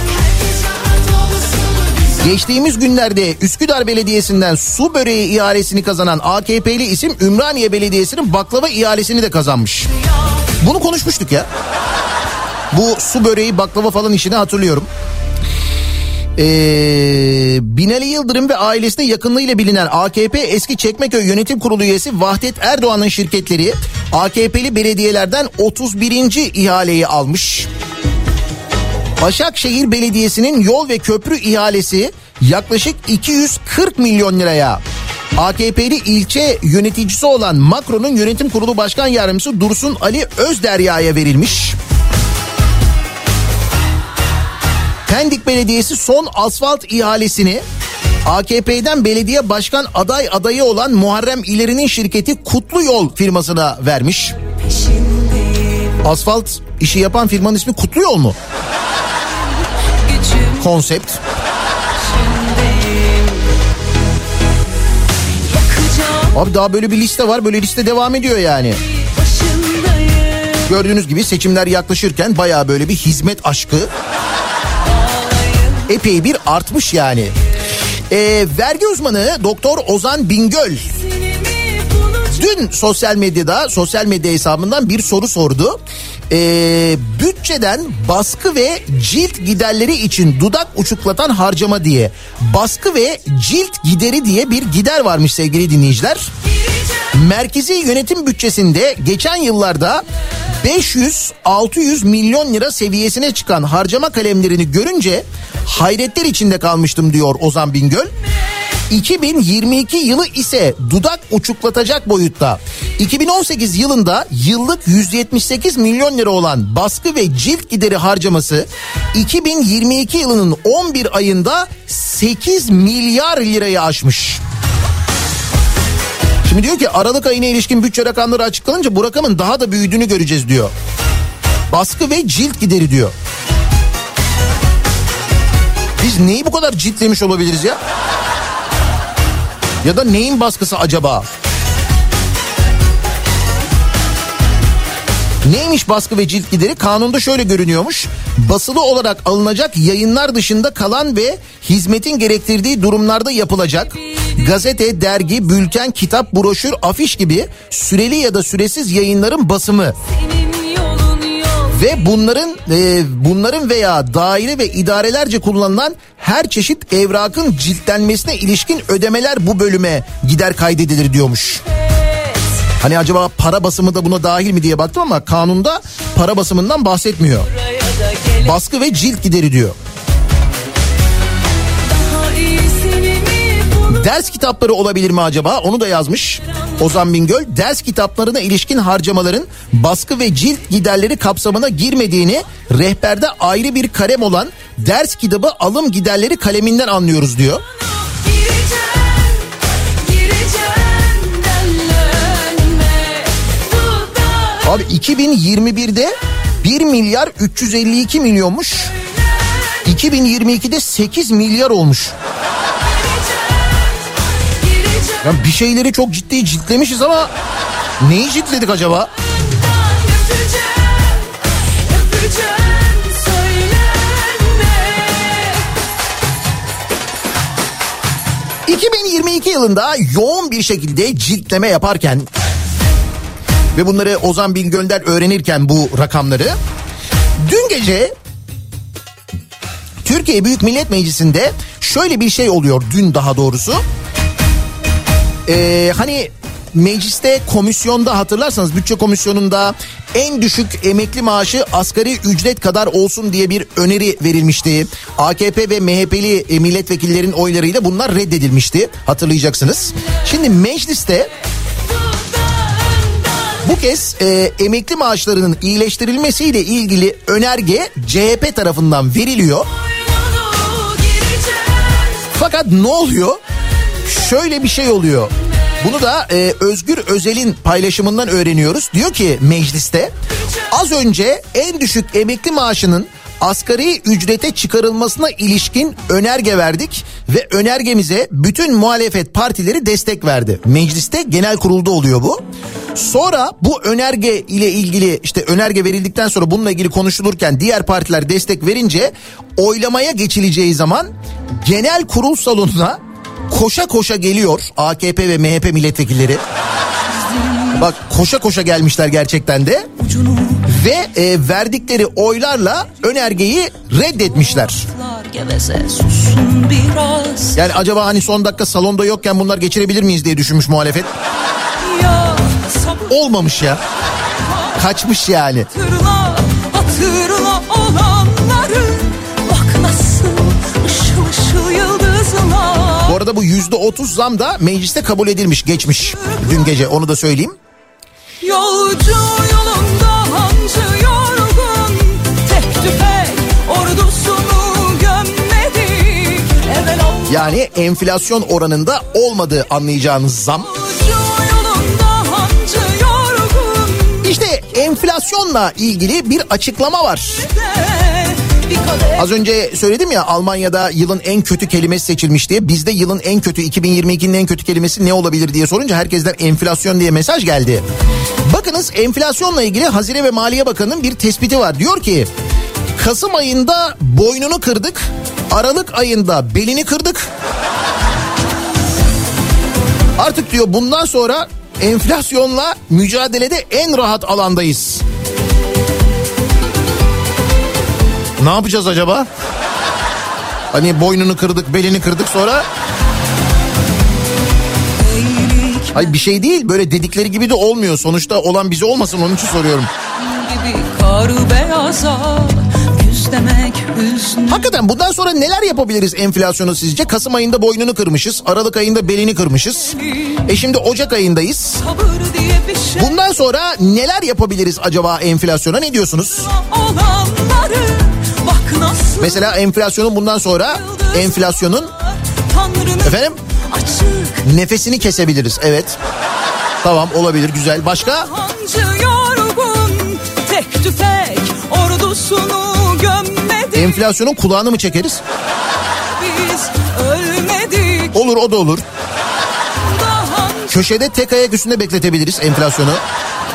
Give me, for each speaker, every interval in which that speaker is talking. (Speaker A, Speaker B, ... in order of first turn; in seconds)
Speaker A: 0.3-2.2, 54.7-55.9, 60.0-60.6, 62.0-63.4, 65.5-66.3, 69.0-70.6, 75.0-75.8, 81.0-82.5, 160.1-161.8, 181.9-183.9, 198.1-199.4, 200.0-204.6, 212.8-215.2, 219.6-221.2, 221.9-225.6, 262.9-263.2, 270.2-272.0, 307.2-307.7, 310.0-310.6, 314.9-317.6, 321.8-323.0, 325.7-333.1, 338.4-347.4, 350.7-354.2, 357.5-359.2, 395.0-396.1, 400.2-404.7, 411.8-413.0, 416.5-419.3, 422.5-423.1, 423.7-424.4, 428.3-433.8, 436.1-438.1, 439.9-440.7
Speaker B: 2.2-9.9, 10.6-11.5, 12.7-14.9, 16.4-27.7, 29.2-34.8, 35.4-41.8, 45.1-47.6, 48.2-54.4, 56.0-58.4, 60.6-61.2, 66.3-68.8, 70.7-73.9, 75.9-77.3, 78.1-80.9, 82.3-85.8, 86.3-96.3, 97.1-100.0, 100.6-108.1, 108.9-124.4, 126.4-130.7, 131.7-133.1, 136.0-137.8, 139.8-141.2, 145.4-159.9, 161.7-171.6, 172.8-177.5, 178.4-179.8, 183.9-197.6, 204.6-208.9, 209.8-212.1, 215.2-217.3, 218.0-219.1, 228.7-232.2, 233.7-236.6, 237.4-238.1, 240.0-243.8, 245.4-261.3, 263.6-269.7, 272.3-273.4, 274.0-280.1, 280.7-292.4, 292.9-301.1, 301.6-303.0, 303.5-306.4, 307.7-309.9, 310.6-314.9, 317.5-321.1, 323.1-323.8, 324.7-325.7, 333.0-337.6, 347.3-350.7, 354.2-357.4, 359.1-367.8, 368.4-372.3, 373.0-377.3, 380.2-385.0, 388.4-389.3, 390.7-392.6, 395.9-399.9, 404.5-411.8, 413.0-416.5, 419.2-421.9, 423.0-423.4, 424.4-426.0, 426.8-428.3, 433.7-435.2, 438.1-438.8, 440.7-443.0